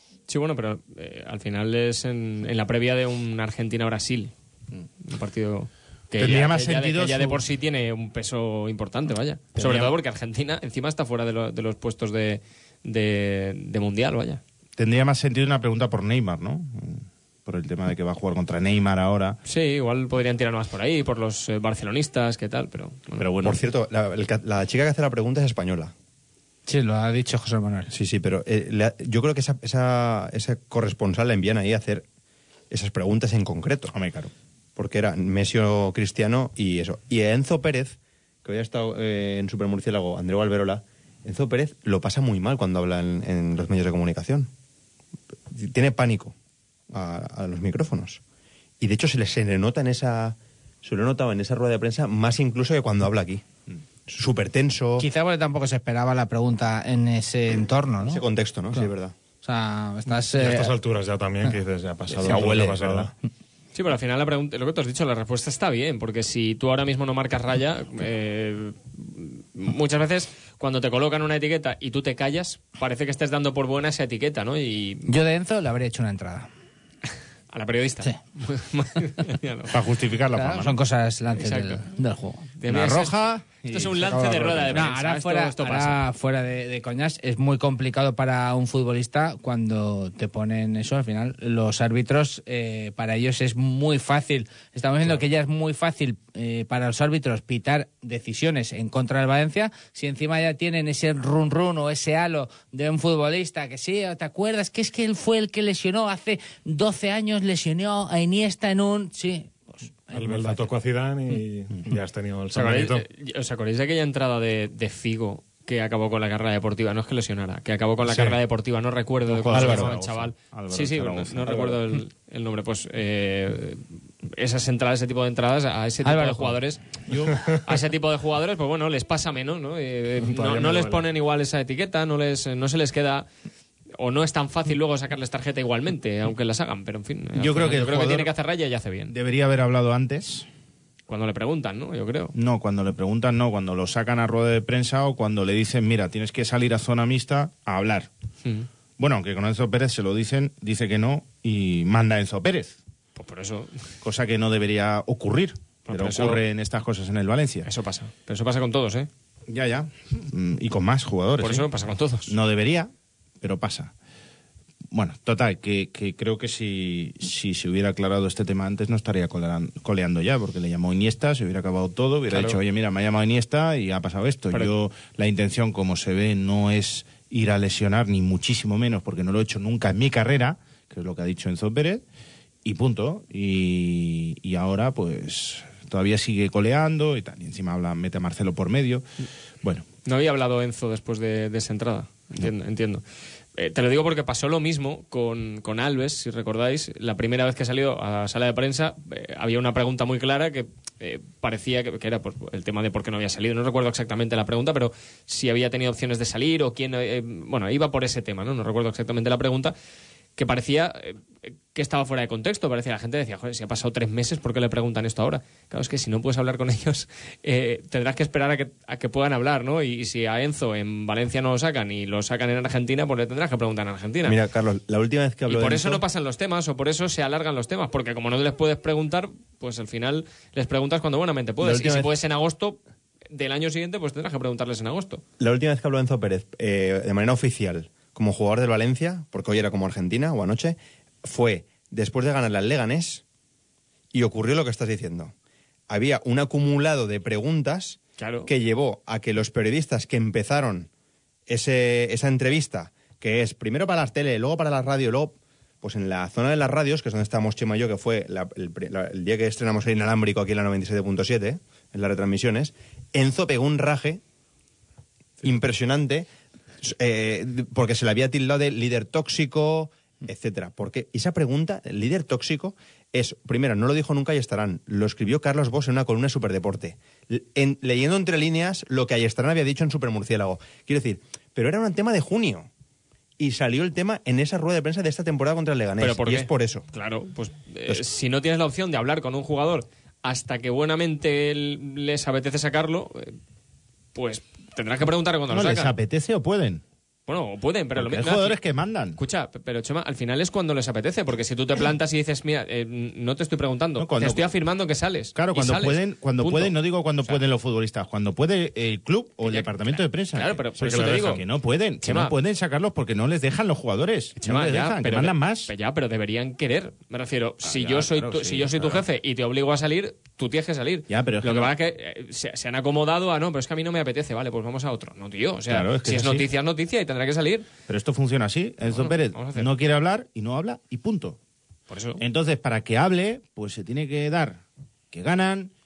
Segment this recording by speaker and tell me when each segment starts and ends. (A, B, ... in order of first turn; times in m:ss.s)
0:00.3-0:04.3 A
0:05.0-0:14.4 A
0:06.2-0:07.4 B
0:09.6-0:09.9 B
0:14.8-0:19.4 B
0:19.4-0:23.3 A
0:23.2-0:23.6 B
0:23.4-0:25.9 C
0:26.7-0:27.9 D
0:27.9-0:32.0 C
0:32.7-0:33.9 C
0:33.9-0:34.3 B
0:34.8-0:44.5 C
0:45.5-0:46.3 C
0:46.9-0:48.2 C
0:48.8-0:53.4 C
0:54.1-0:55.0 C
0:55.0-0:58.2 D
0:58.0-0:59.1 C
0:59.4-1:00.7 D
1:00.3-1:03.1 E
1:02.2-1:02.8 B
1:02.2-1:03.1 C
1:03.7-1:15.1 A
1:15.0-1:16.5 D
1:17.5-1:19.7 A
1:19.7-1:20.8 B
1:20.3-1:22.5 D
1:21.4-1:21.8 A
1:22.6-1:26.0 A
1:22.6-1:24.9 B
1:24.6-1:50.7 D
1:50.1-1:53.0 E
1:52.5-2:06.8 A
1:59.3-2:01.8 B
2:06.0-2:06.6 D
2:07.1-2:07.4 B
2:07.6-2:13.3 A
2:10.2-2:11.1 E
2:14.0-2:19.1 A
2:17.4-2:18.3 B
2:19.1-2:20.5 B
2:21.1-2:22.3 A
2:22.3-2:28.1 B
2:29.0-2:32.8 B
2:33.2-2:33.9 A
2:34.0-2:37.7 B
2:35.9-2:36.4 A
2:37.6-2:39.1 A
2:39.5-2:41.7 B
2:41.4-2:42.3 A
2:42.3-2:43.9 B
2:44.9-3:02.0 B
2:52.3-2:52.6 A
3:02.6-3:09.0 B
3:10.0-3:13.0 A
3:13.6-3:29.7 A
3:30.4-3:31.2 A
3:31.7-3:44.4 A
3:44.2-3:46.0 C
3:45.5-3:52.8 A
3:51.6-3:52.1 C
3:53.3-3:55.2 A
3:55.4-4:03.2 C
4:04.1-4:05.3 C
4:05.9-4:10.9 C
4:08.2-4:08.5 A
4:11.5-4:24.2 C
4:25.4-4:26.3 C
4:26.8-4:42.7 C
4:43.4-4:46.8 C
4:46.0-4:53.4 A
4:54.1-4:55.9 A
4:55.5-4:56.8 B
4:57.3-4:58.6 A
4:57.9-4:59.2 B
4:59.2-5:07.4 A
5:04.0-5:04.5 B
5:05.3-5:15.7 B
5:09.4-5:11.4 A
5:12.0-5:12.3 A
5:14.4-5:27.7 A
5:17.6-5:19.0 B
5:21.1-5:21.7 B
5:25.7-5:26.4 B
5:27.9-5:31.4 B
5:28.8-5:29.7 A
5:31.9-5:32.2 A
5:32.2-5:35.7 B